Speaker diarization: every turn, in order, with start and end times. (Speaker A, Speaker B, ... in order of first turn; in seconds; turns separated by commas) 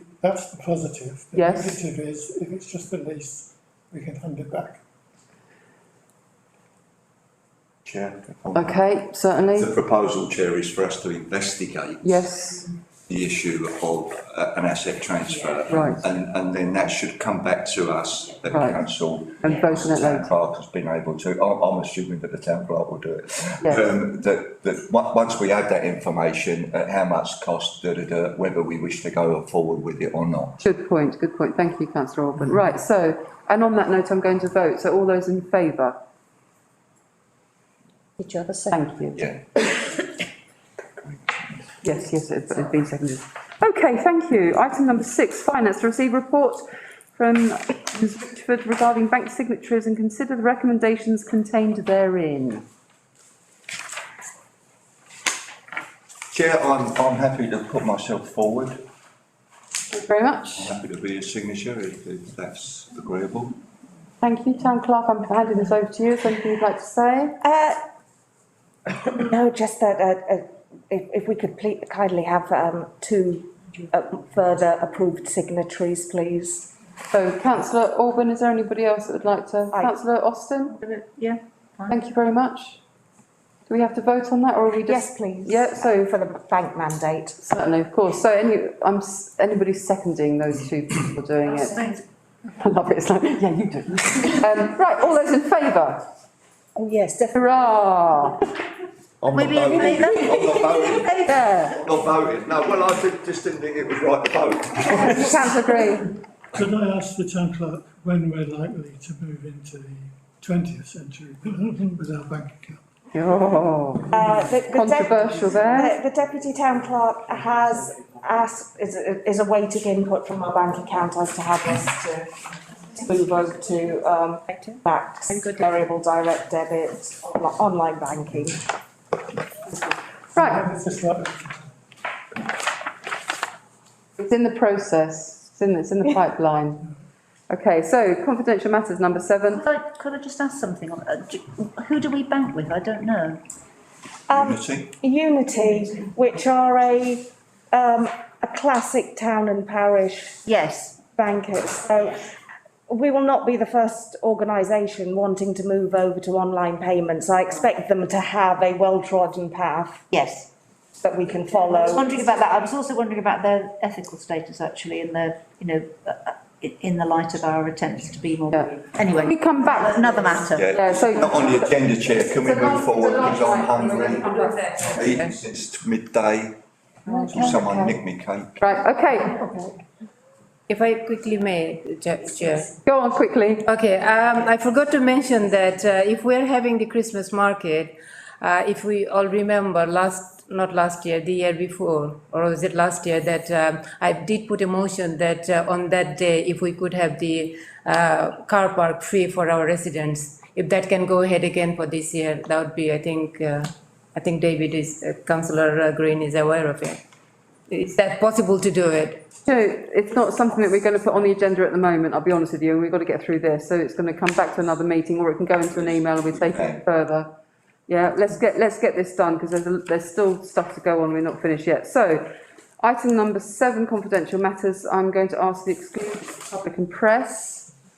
Speaker A: 0.2-4.8, Speaker B: 1.3-1.8, Speaker C: 7.8-8.8, Speaker B: 8.5-9.7, Speaker C: 9.5-12.3, Speaker B: 12.0-12.7, Speaker C: 13.1-30.6, Speaker B: 15.7-16.0, Speaker B: 18.5-18.8, Speaker B: 19.4-20.3, Speaker B: 30.6-36.0, Speaker D: 38.2-38.8, Speaker B: 38.7-39.2, Speaker C: 39.1-39.4, Speaker C: 41.0-41.6, Speaker B: 41.8-46.6, Speaker B: 47.1-52.6, Speaker C: 56.3-58.8, Speaker B: 59.9-60.7, Speaker C: 60.6-63.5, Speaker B: 64.2-67.4, Speaker E: 67.4-67.8, Speaker E: 68.9-76.7, Speaker B: 77.1-80.8, Speaker D: 80.8-81.9, Speaker B: 81.9-82.8, Speaker B: 83.7-86.1, Speaker E: 84.9-87.4, Speaker B: 87.4-92.0, Speaker D: 91.6-92.0, Speaker B: 92.5-96.0, Speaker D: 96.8-97.1, Speaker E: 97.0-97.3, Speaker B: 97.3-98.4, Speaker C: 99.2-105.5, Speaker D: 99.3-101.4, Speaker B: 101.3-101.7, Speaker B: 105.0-106.1, Speaker A: 106.5-112.8, Speaker B: 113.1-115.9, Speaker E: 114.1-122.3, Speaker E: 122.9-128.6, Speaker B: 130.3-130.6, Speaker A: 130.3-131.6, Speaker B: 134.2-136.9, Speaker B: 137.5-139.6, Speaker D: 139.6-143.4, Speaker E: 144.3-150.4, Speaker C: 144.3-144.9, Speaker D: 150.4-151.0, Speaker E: 151.1-152.3, Speaker E: 152.9-160.0, Speaker D: 160.1-160.5, Speaker E: 161.0-162.2, Speaker D: 161.7-170.7, Speaker B: 168.5-171.7, Speaker C: 170.5-174.3, Speaker B: 172.3-174.8, Speaker F: 174.2-175.2, Speaker C: 174.8-176.6, Speaker B: 177.1-177.6, Speaker C: 177.2-178.6, Speaker B: 178.6-179.5, Speaker F: 180.7-182.7, Speaker B: 182.8-183.7, Speaker F: 183.7-207.0, Speaker F: 207.7-209.2, Speaker B: 209.5-217.3, Speaker C: 215.7-216.8, Speaker B: 217.9-227.7